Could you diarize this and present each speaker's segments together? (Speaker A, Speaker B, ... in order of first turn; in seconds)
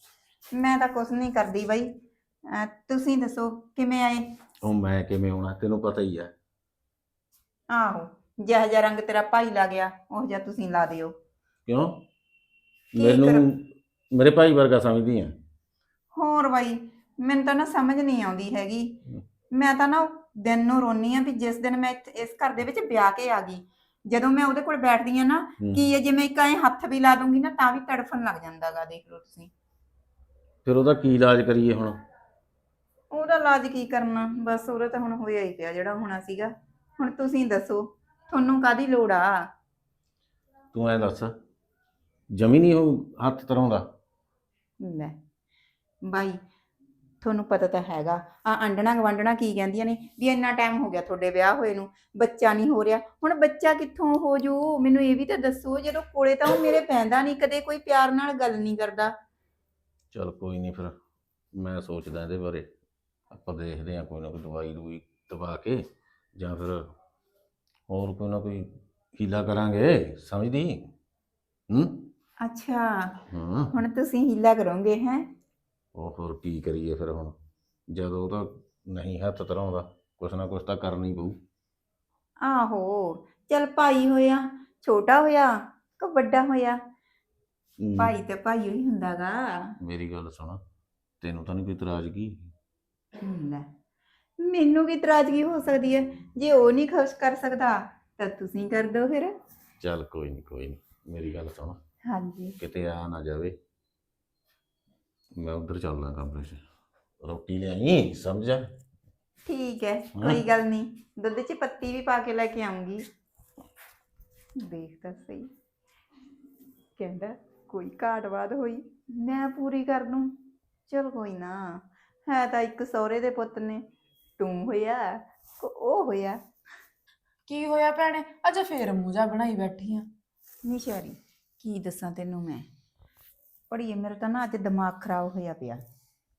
Speaker A: 0.5-4.4, 7.7-11.2, 13.0-13.4, 16.1-19.0, 19.5-29.5, 33.1-39.5, 44.8-45.2, 46.0-46.4, 47.2-59.1, 72.4-73.2, 73.7-75.3, 82.4-86.8, 88.0-89.7, 93.2-93.7, 94.4-99.3, 102.0-102.6, 109.5-113.0, 114.6-115.5, 117.0-120.3, 120.9-123.9, 124.4-126.4, 130.6-132.7, 133.7-135.8
Speaker B: 4.6-6.3, 11.7-12.0, 12.9-15.3, 25.6-25.9, 30.6-32.0, 40.7-41.3, 42.4-43.8, 60.1-60.9, 61.5-62.7, 63.3-65.8, 66.3-66.8, 67.9-70.9, 71.7-72.0, 73.3-73.7, 76.0-77.3, 77.9-81.4, 87.8-88.1, 89.8-90.6, 91.2-92.5, 99.8-101.8, 102.6-103.5, 105.3-106.6, 107.2-108.6, 110.2-110.4
Speaker C: 127.5-130.1